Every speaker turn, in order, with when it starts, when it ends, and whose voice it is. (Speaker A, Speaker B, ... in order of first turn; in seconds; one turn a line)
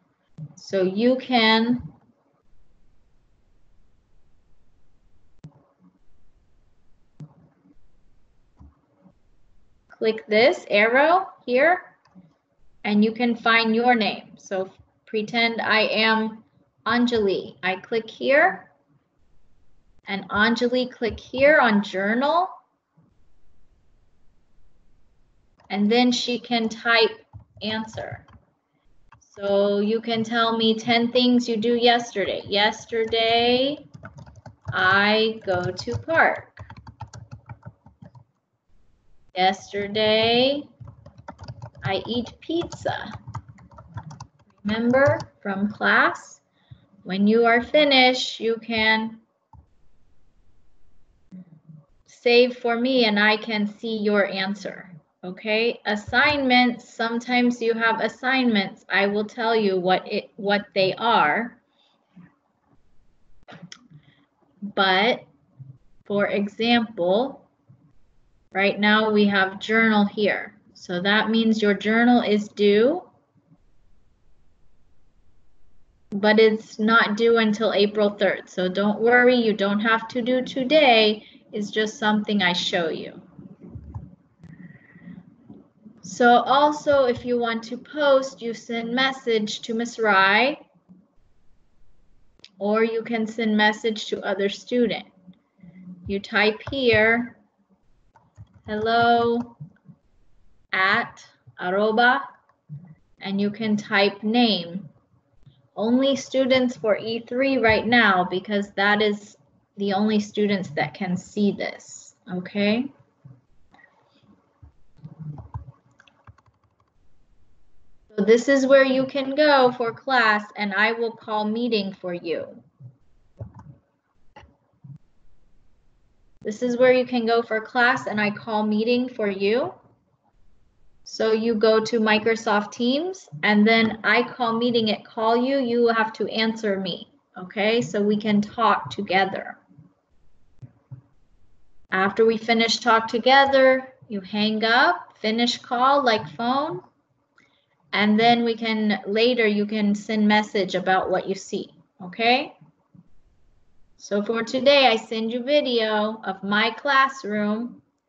Speaker A: 0.6-1.9
Speaker A: 9.9-11.9
Speaker A: 12.8-18.7
Speaker A: 20.1-22.6
Speaker A: 25.7-28.2
Speaker A: 29.2-33.9
Speaker A: 34.7-36.6
Speaker A: 39.3-40.7
Speaker A: 41.8-43.1
Speaker A: 44.6-46.4
Speaker A: 47.0-49.2
Speaker A: 52.1-61.6
Speaker A: 64.7-65.3
Speaker A: 66.1-67.5
Speaker A: 68.5-73.1
Speaker A: 76.1-83.2
Speaker A: 86.0-90.6
Speaker A: 92.6-95.1
Speaker A: 96.1-97.4
Speaker A: 98.7-99.6
Speaker A: 100.7-102.2
Speaker A: 103.2-104.9
Speaker A: 105.8-112.9
Speaker A: 118.1-122.6
Speaker A: 126.4-129.8
Speaker A: 131.1-139.6
Speaker A: 141.9-146.8
Speaker A: 147.9-152.6
Speaker A: 154.0-157.8